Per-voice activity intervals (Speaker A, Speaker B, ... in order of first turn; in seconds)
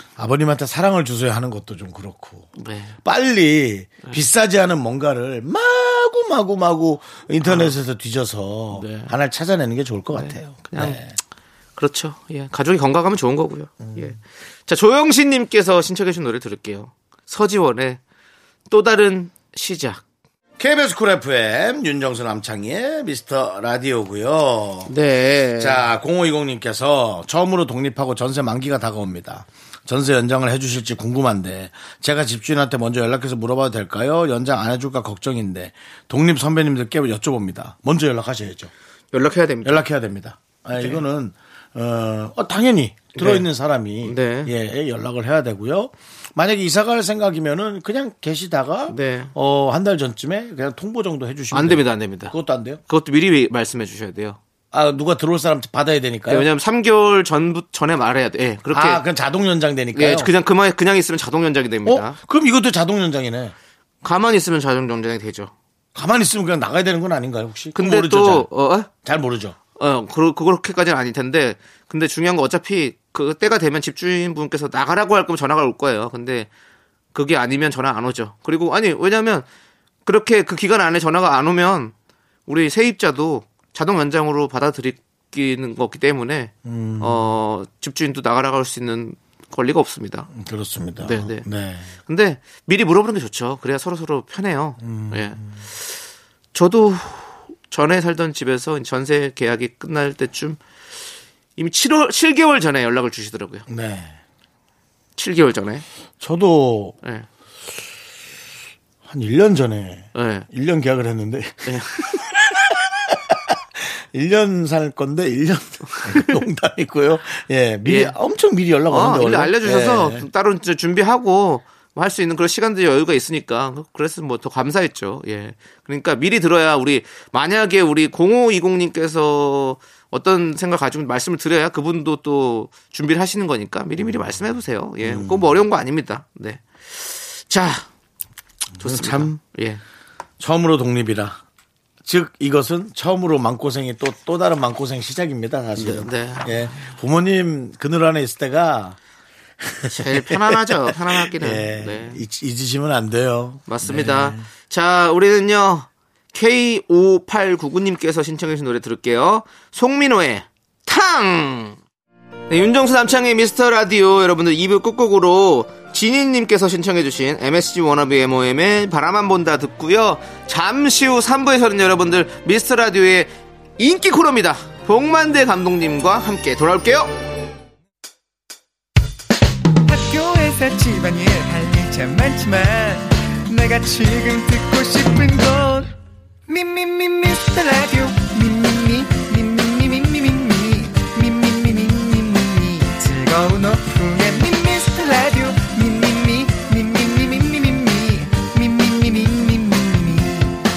Speaker A: 0.2-2.5, 3.0-11.2, 13.8-14.1, 20.6-24.9, 25.6-38.7, 39.6-52.8, 54.7-56.5, 58.7-60.3, 61.9-63.5, 66.0-68.5, 69.0-69.6, 86.7-87.2, 90.3-91.9, 94.8-95.5, 103.7-104.2, 106.2-107.0, 109.0-120.3, 135.0-135.6, 138.8-139.3, 140.4-141.4, 142.0-149.0, 149.6-154.4
Speaker B: 2.6-3.0, 7.4-7.7, 8.7-9.1, 10.1-11.0, 11.8-18.0, 18.7-20.0, 24.9-25.9, 39.1-39.9, 43.2-43.5, 44.0-44.5, 48.9-49.3, 51.5-52.3, 52.9-54.4, 56.3-59.0, 59.9-62.2, 64.0-65.5, 67.8-68.9, 69.8-76.5, 77.1-79.5, 80.0-81.9, 82.5-90.3, 91.0-91.5, 92.0-96.0, 96.5-100.6, 101.6-103.7, 105.2-105.8, 110.1-110.5, 111.7-112.1, 115.9-116.4, 117.8-118.2, 118.9-137.9, 138.8-139.8, 145.8-146.9, 149.9-152.2, 153.7-161.8, 162.5-177.1
Speaker C: 179.9-185.9, 186.5-200.6